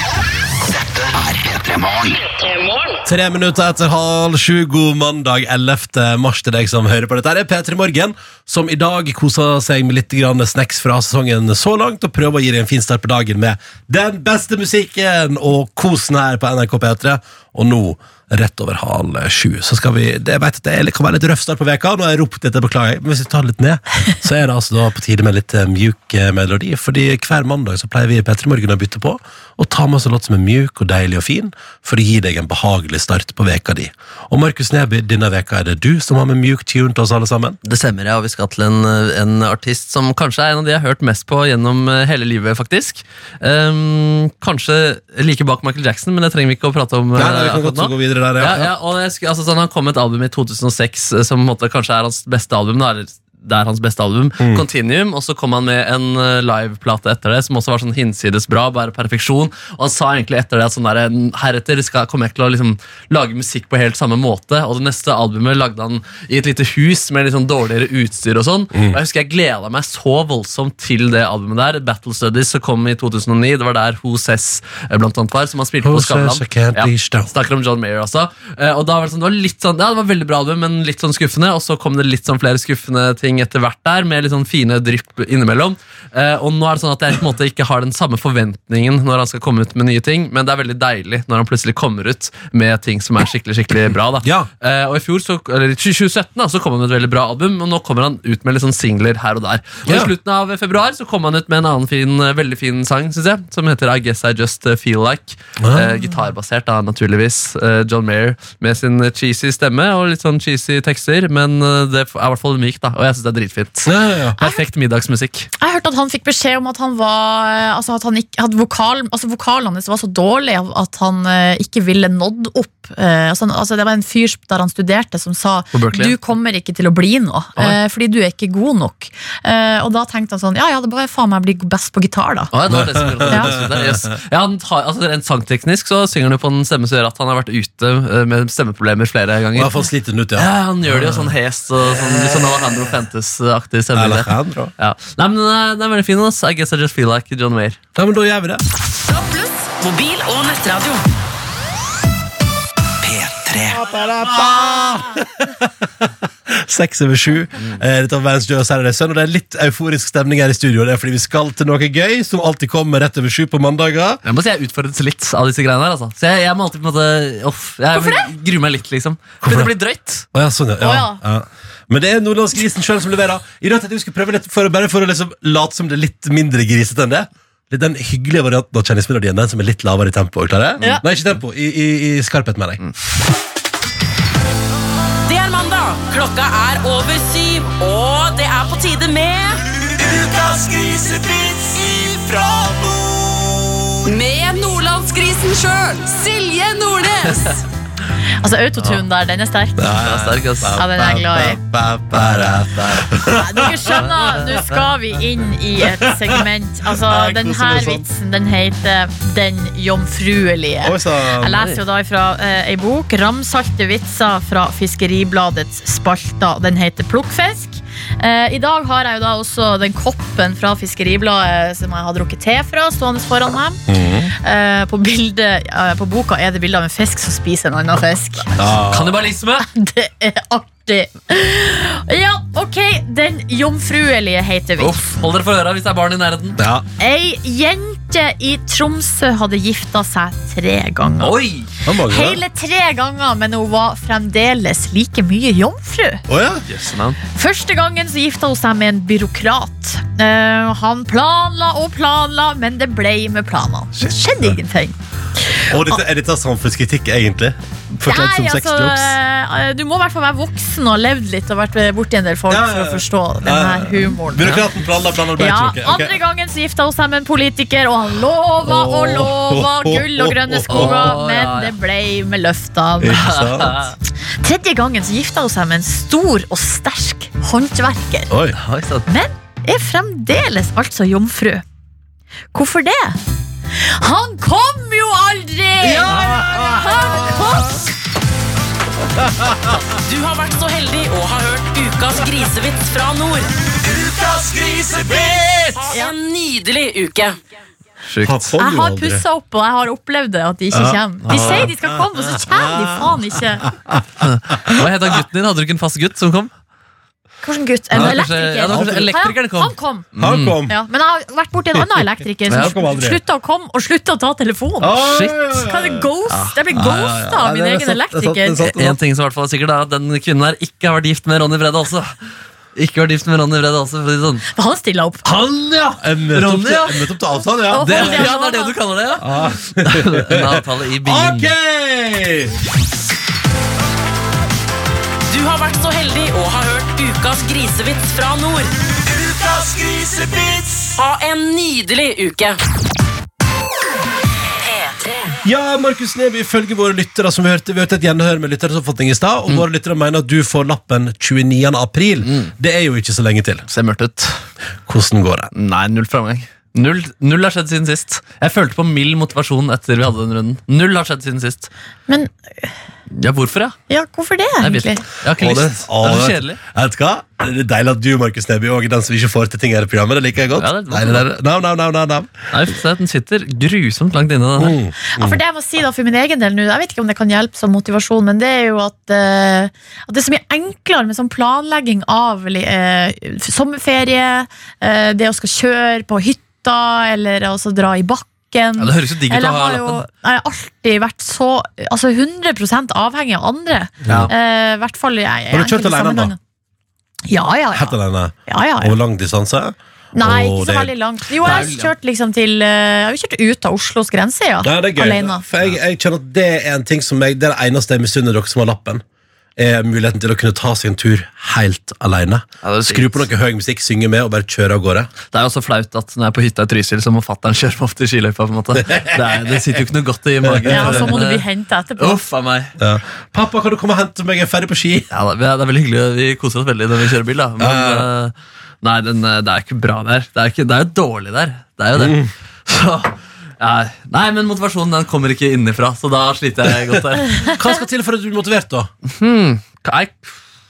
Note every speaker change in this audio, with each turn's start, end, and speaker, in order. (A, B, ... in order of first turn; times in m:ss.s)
0:00.8-0:02.3 A
0:02.5-0:02.8 B
0:03.0-0:37.6 C
0:37.6-1:55.5 D
0:47.2-0:48.7 C
1:08.7-1:09.0 C
1:15.8-1:17.3 C
1:34.2-1:34.5 C
1:39.8-1:40.1 C
1:45.6-1:45.9 C
1:53.8-1:54.4 C
1:55.6-2:12.5 E
2:05.7-2:06.2 D
2:12.5-2:19.7 D
2:12.7-2:14.1 C
2:19.5-2:21.3 C
2:20.4-2:27.8 D
2:21.9-2:22.9 C
2:23.9-2:24.7 C
2:28.0-2:28.6 C
2:29.1-2:31.0 B
2:33.0-2:33.8 A
2:33.7-2:44.2 C
2:44.2-2:50.3 D
2:47.9-2:48.3 E
2:49.4-2:49.7 C
2:50.3-3:02.8 C
2:50.8-2:51.2 E
3:05.2-3:12.9 B
3:14.0-3:17.6 B
3:18.4-3:19.9 E
3:19.8-3:24.4 C
3:20.0-3:20.7 D
3:20.8-3:21.6 E
3:22.2-3:23.1 D
3:23.3-3:43.8 E
3:24.0-3:24.7 D
3:25.8-3:28.0 C
3:30.8-3:31.7 C
3:43.9-3:44.3 C
3:44.4-3:48.6 E
3:48.6-3:49.2 C
3:48.9-3:49.7 D
3:49.6-3:55.0 E
3:54.8-3:56.6 D
3:56.6-3:56.8 C
3:57.0-4:01.4 E
4:01.2-4:01.7 D
4:01.8-4:02.4 C
4:02.0-4:06.2 E
4:06.3-4:06.6 C
4:06.7-4:07.2 D
4:07.3-4:15.0 E
4:14.0-4:14.5 C
4:15.5-4:15.9 E
4:15.7-4:19.1 C
4:18.0-4:24.6 E
4:22.5-4:26.2 C
4:25.4-4:33.4 E
4:28.6-4:31.2 C
4:30.7-4:31.7 D
4:33.0-4:33.9 C
4:33.2-4:33.9 D
4:34.4-4:38.3 E
4:38.3-4:38.6 C
4:38.6-4:39.0 D
4:39.1-4:41.6 E
4:42.5-4:43.2 E
4:43.8-4:47.8 E
4:45.8-4:47.5 C
4:49.3-4:49.7 C
4:49.9-4:53.5 B
4:54.9-4:57.4 B
4:58.1-4:58.4 D
4:58.2-4:59.2 C
4:58.6-5:03.7 E
5:00.7-5:04.9 C
5:01.3-5:01.7 D
5:04.2-5:06.5 D
5:07.4-5:10.1 E
5:07.9-5:09.2 C
5:07.9-5:10.6 D
5:10.2-5:10.8 C
5:10.7-5:18.6 E
5:11.8-5:13.2 C
5:12.5-5:12.8 D
5:14.8-5:16.1 C
5:15.1-5:15.4 D
5:16.7-5:19.0 C
5:18.6-5:22.1 D
5:22.8-5:24.5 D
5:24.5-5:25.2 E
5:25.2-5:28.3 C
5:26.3-5:27.1 D
5:27.7-5:28.8 E
5:27.8-5:31.5 D
5:29.2-5:32.5 C
5:35.3-5:38.7 B
5:39.9-5:40.6 C
5:41.0-5:42.6 B
5:44.6-5:45.0 B
5:45.4-5:53.6 C
5:52.2-5:52.5 D
5:53.7-5:54.4 D
5:54.9-5:55.5 C
5:55.5-6:01.7 D
6:02.1-6:02.7 E
6:03.2-6:03.8 D
6:03.9-6:05.0 E
6:04.6-6:06.6 D
6:05.4-6:12.5 C
6:10.6-6:11.2 D
6:12.5-6:14.8 D
6:14.6-6:15.4 C
6:15.1-6:36.4 E
6:28.8-6:30.0 D
6:34.0-6:34.3 C
6:34.0-6:34.3 D
6:35.5-6:36.3 C
6:37.3-6:38.0 E
6:37.7-6:40.9 C
6:38.5-6:39.0 E
6:40.1-6:45.4 E
6:41.4-6:41.9 D
6:44.6-6:49.0 C
6:49.6-6:55.1 C
6:52.6-6:53.3 D
6:55.3-7:01.4 D
6:58.8-6:59.6 C
7:00.4-7:01.2 C
7:00.7-7:02.2 E
7:02.0-7:02.8 D
7:02.8-7:05.1 C
7:05.1-7:17.5 D
7:07.6-7:08.1 C
7:12.0-7:12.3 C
7:17.4-7:18.9 C
7:19.0-7:20.3 D